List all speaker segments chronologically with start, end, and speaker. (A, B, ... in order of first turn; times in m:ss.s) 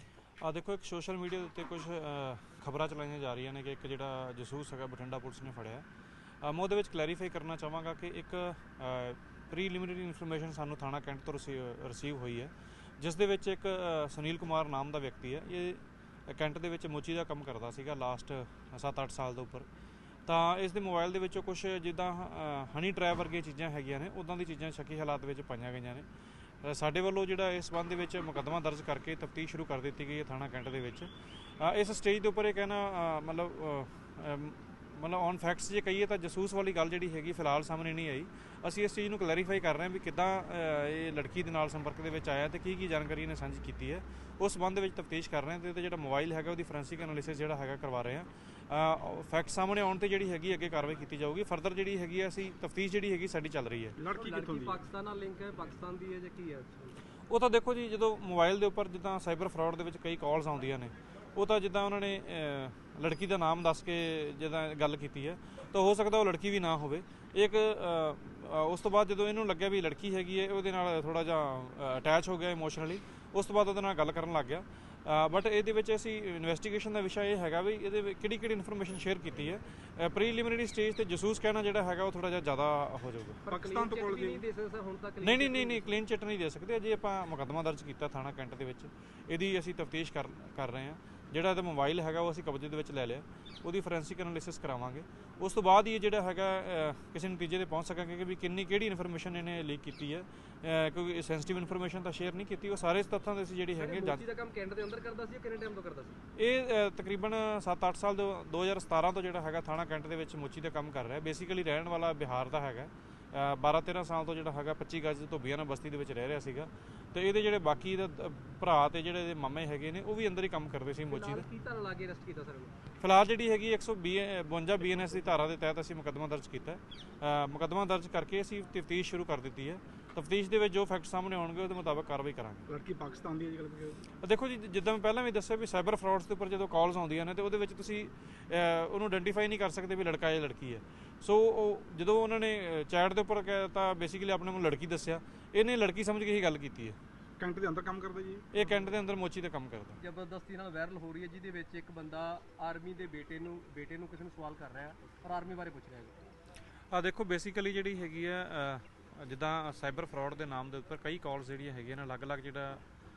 0:00.4-0:05.8 A
0:06.4-0:19.7 A
0:20.3-0:26.1 A
0:26.6-0:54.0 A
0:54.0-0:54.8 B
0:54.1-0:57.0 C
0:57.3-1:23.4 A
1:23.5-1:25.9 C
1:23.5-1:24.4 B
1:25.2-1:44.2 A
1:43.8-1:46.2 C
1:46.4-2:01.5 A
2:01.1-2:02.8 C
2:03.0-2:12.7 A
2:12.7-2:14.0 B
2:14.2-2:27.0 A
2:27.4-2:28.5 B
2:28.5-2:30.0 A
2:28.6-2:28.9 C
2:30.0-2:36.3 C
2:36.9-2:42.8 A